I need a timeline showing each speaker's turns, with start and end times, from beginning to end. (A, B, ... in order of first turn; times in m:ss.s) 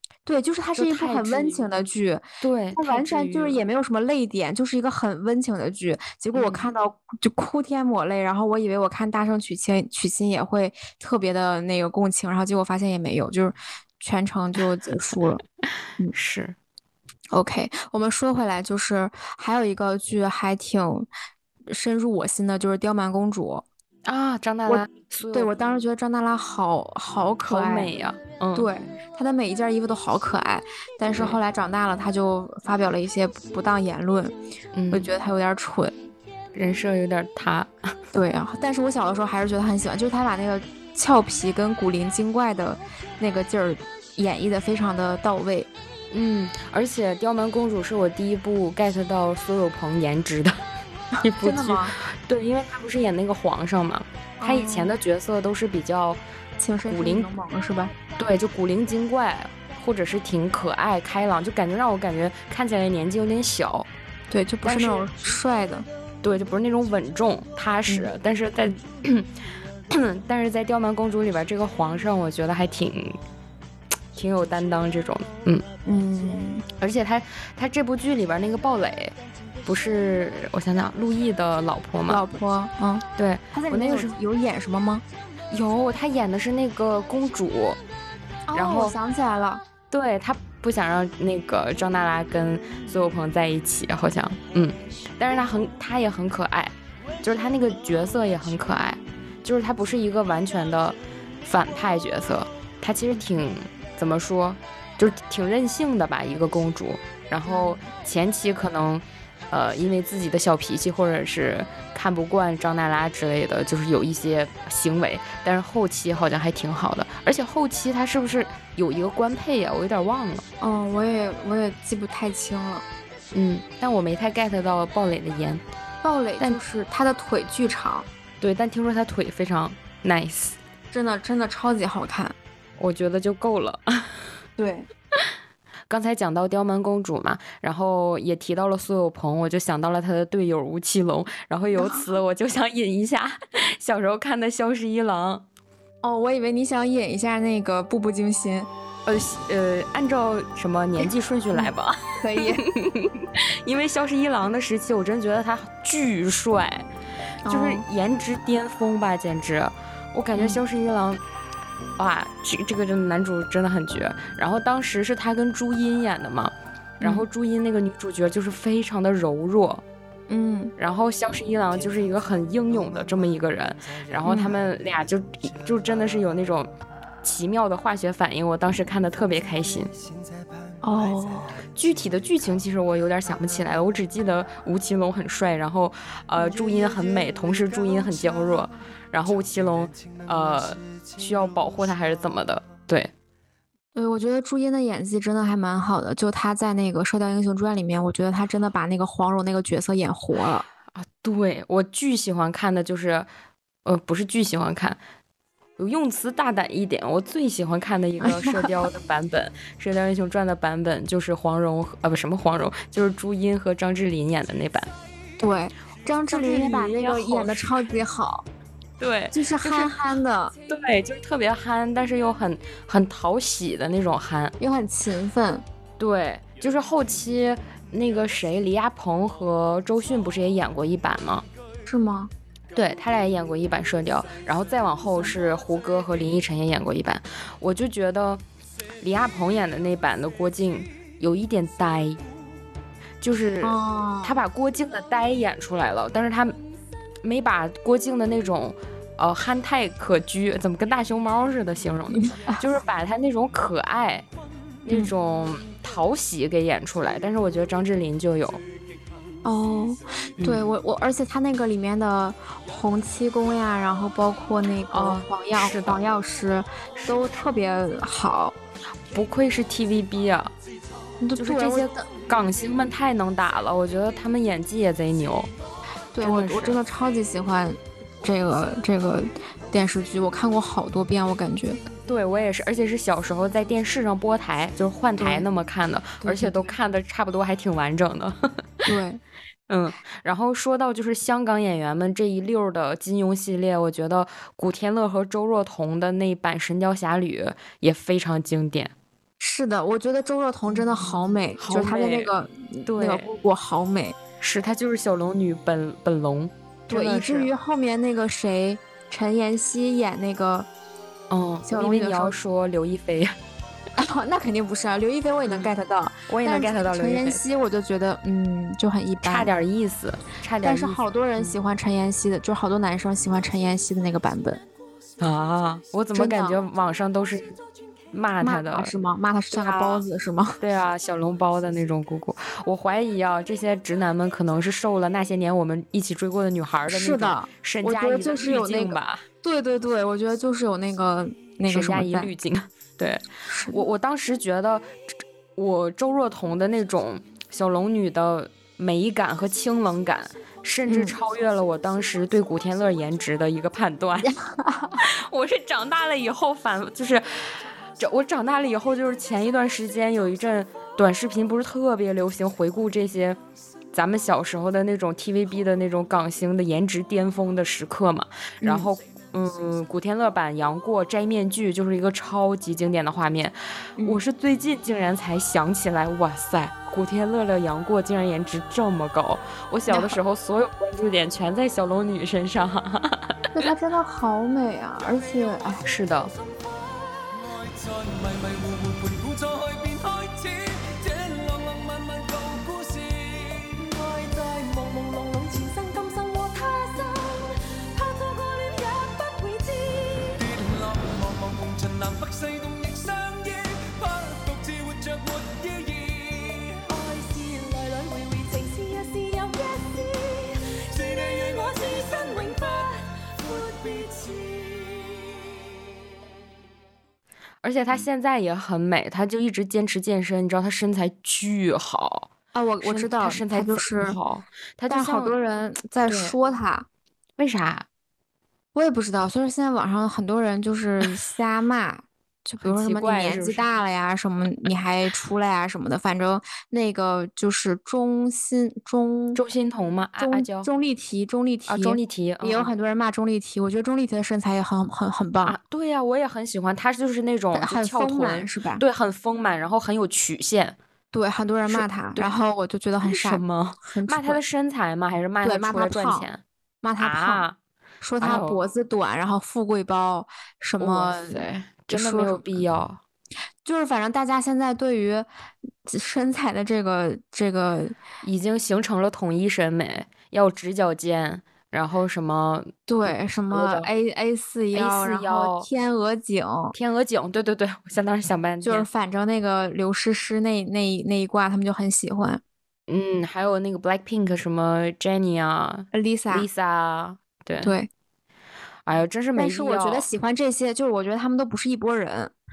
0:00.2-0:15.4 A
0:00.8-0:01.6 B
0:02.4-0:03.6 B
0:06.3-0:06.7 B
0:16.1-0:16.6 B
0:17.3-0:21.1 A
0:21.7-0:23.6 A
0:24.0-0:25.5 B
0:24.6-0:27.9 A
0:27.4-0:28.7 B
0:28.5-0:34.4 A
0:34.7-0:35.1 B
0:34.9-0:36.0 A
0:36.5-0:37.7 B
0:38.1-0:45.7 A
0:46.1-0:50.6 B
0:51.2-0:56.2 B
0:51.4-0:52.0 A
0:54.4-0:54.9 A
0:56.6-0:57.9 A
0:56.9-0:57.3 B
0:58.2-1:03.9 B
1:04.3-1:05.9 A
1:04.6-1:05.1 B
1:06.2-1:09.3 B
1:09.9-1:13.2 B
1:14.1-1:15.6 B
1:15.8-1:16.6 A
1:16.8-1:22.2 B
1:22.1-1:25.0 A
1:23.2-1:24.1 B
1:25.5-1:27.8 B
1:28.5-1:29.6 A
1:28.5-1:28.9 B
1:29.9-2:00.4 B
1:47.4-1:47.8 A
2:00.6-2:02.8 A
2:03.3-2:05.6 B
2:06.0-2:08.1 A
2:08.4-2:10.6 B
2:10.9-2:12.4 A
2:12.8-2:14.3 B
2:14.6-2:14.9 A
2:15.9-2:25.4 B
2:21.8-2:22.0 A
2:26.0-2:28.7 A
2:29.0-2:36.8 B
2:31.0-2:32.6 A
2:37.4-2:37.8 A
2:37.5-2:41.2 B
2:42.0-2:49.8 B
2:47.0-2:47.2 A
2:50.3-2:50.7 A
2:50.8-2:56.7 B
2:54.2-2:54.6 A
2:57.2-2:59.9 B
3:00.8-3:01.6 A
3:01.7-3:13.1 B
3:13.9-3:20.6 A
3:20.9-3:23.3 B
3:23.8-3:25.0 B
3:25.8-3:34.9 B
3:28.2-3:28.7 A
3:35.4-3:38.4 A
3:36.3-3:37.6 B
3:39.0-3:39.9 B
3:39.3-3:40.5 A
3:40.7-3:44.5 B
3:44.6-3:45.6 A
3:46.0-3:51.4 B
3:51.9-3:52.3 A
3:52.7-3:58.4 B
3:59.0-4:02.2 B
4:03.2-4:06.6 B
4:03.6-4:04.4 A
4:07.2-4:14.3 B
4:12.1-4:12.6 A
4:14.8-4:18.6 B
4:19.4-4:28.6 A
4:20.4-4:20.7 B
4:24.9-4:26.0 B
4:29.1-4:30.5 B
4:31.2-4:32.0 A
4:31.4-4:35.5 B
4:36.1-4:41.8 A
4:36.2-4:36.8 B
4:42.0-4:48.9 B
4:45.2-4:45.4 A
4:46.2-4:46.6 A
4:48.8-4:49.2 A
4:49.7-4:58.9 B
4:59.4-5:04.2 A
5:01.6-5:02.3 B
5:02.8-5:03.3 B
5:04.4-5:07.5 B
5:06.9-5:10.7 A
5:11.3-5:13.4 B
5:11.7-5:12.3 A
5:13.9-5:19.5 A
5:16.3-5:17.4 B
5:19.2-5:21.5 B
5:20.6-5:24.6 A
5:25.2-5:27.6 B
5:26.1-5:26.6 A
5:28.1-5:28.9 B
5:28.4-5:30.6 A
5:29.5-5:30.0 B
5:30.6-5:39.2 B
5:36.9-5:42.3 A
5:41.7-5:44.9 B
5:43.5-5:43.8 A
5:45.6-5:54.3 B
5:50.9-5:51.2 A
5:54.2-5:55.0 A
5:55.0-6:03.4 B
6:03.9-6:23.4 B
6:08.6-6:08.9 A
6:19.9-6:20.2 A
6:23.5-6:25.8 A
6:25.8-6:26.3 B
6:26.3-6:55.4 C
6:57.6-7:02.3 B
7:02.5-7:04.2 A
7:02.8-7:05.3 B
7:04.9-7:06.9 A
7:06.0-7:06.3 B
7:07.4-7:07.8 B
7:08.7-7:19.4 A
7:12.6-7:13.6 B
7:19.3-7:20.7 B
7:20.2-7:25.6 A
7:21.7-7:22.7 B
7:25.4-7:30.8 B
7:27.5-7:28.8 A
7:31.1-7:34.4 A
7:31.7-7:32.3 B
7:33.0-7:36.4 B
7:35.4-7:36.3 A
7:36.8-7:37.4 A
7:37.0-7:37.6 B
7:38.0-7:42.6 A
7:38.2-7:38.6 B
7:40.8-7:43.0 B
7:43.6-7:45.3 A
7:45.8-7:48.0 A
7:48.2-7:52.7 B
7:52.9-7:56.7 A
7:53.5-7:53.9 B
7:54.7-7:55.7 B
7:56.7-7:58.9 B
7:58.6-8:02.4 A
8:02.9-8:07.7 B
8:05.9-8:06.5 A
8:07.6-8:07.9 A
8:08.8-8:10.1 B
8:09.4-8:12.3 A